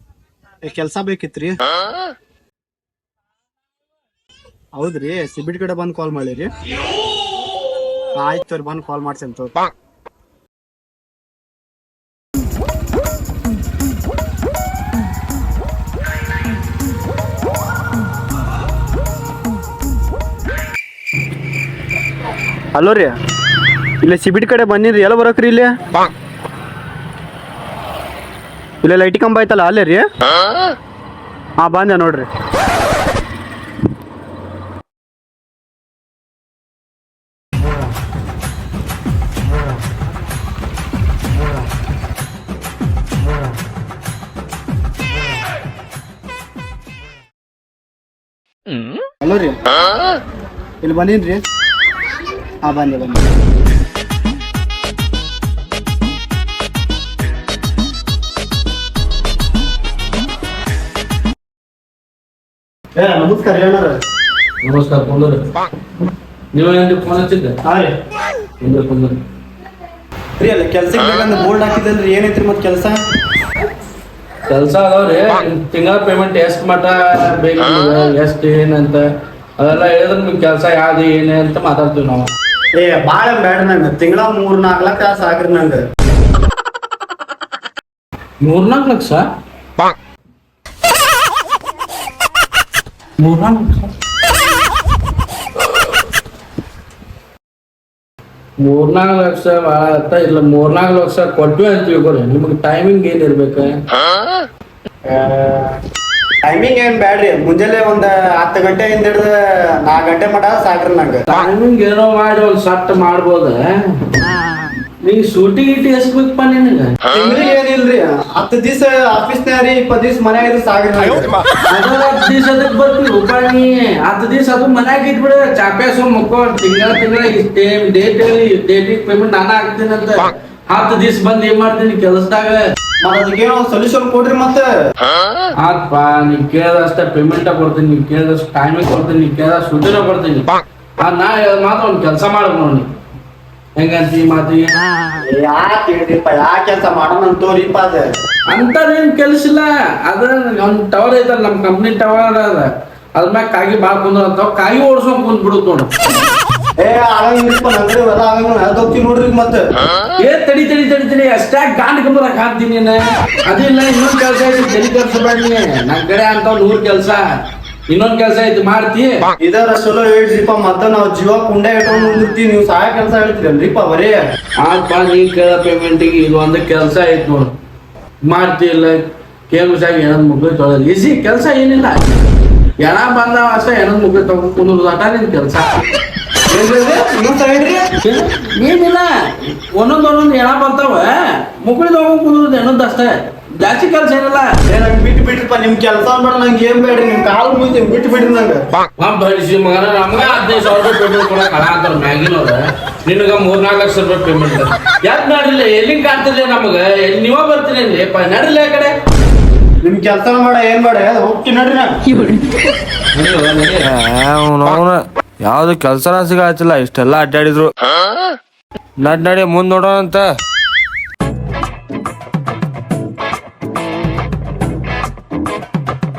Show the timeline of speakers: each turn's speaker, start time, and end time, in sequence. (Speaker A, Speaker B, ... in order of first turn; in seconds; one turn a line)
Speaker A: 0.6-1.6
Speaker A: 4.8-6.5
Speaker A: 8.2-9.6
Speaker A: 22.7-23.2
Speaker A: 24.0-25.8
Speaker A: 28.8-30.1
Speaker A: 31.6-32.3
Speaker A: 49.2-49.6
Speaker A: 50.8-51.4
Speaker A: 52.6-53.2
Speaker A: 63.0-64.0
Speaker B: 64.6-65.5
Speaker B: 66.5-67.6
Speaker A: 67.7-67.9
Speaker B: 68.6-69.2
Speaker A: 70.4-73.0
Speaker B: 74.5-79.1
Speaker B: 79.6-82.3
Speaker A: 82.8-85.8
Speaker B: 88.4-89.3
Speaker B: 93.2-93.9
Speaker B: 98.6-103.8
Speaker A: 105.1-105.8
Speaker A: 106.4-111.2
Speaker B: 111.3-114.0
Speaker B: 115.0-117.0
Speaker A: 117.1-121.3
Speaker B: 121.7-132.6
Speaker A: 133.0-134.7
Speaker B: 135.6-142.9
Speaker B: 143.8-144.8
Speaker A: 145.2-148.1
Speaker B: 148.5-155.9
Speaker A: 156.8-159.6
Speaker B: 160.2-167.3
Speaker B: 167.9-169.3
Speaker A: 169.4-174.2
Speaker B: 174.6-177.5
Speaker B: 178.3-182.3
Speaker B: 182.8-185.7
Speaker A: 186.5-187.9
Speaker B: 188.0-194.5
Speaker A: 194.7-198.7
Speaker B: 199.0-209.0
Speaker A: 209.8-211.9
Speaker B: 213.1-213.9
Speaker C: 213.9-217.7
Speaker C: 219.0-220.3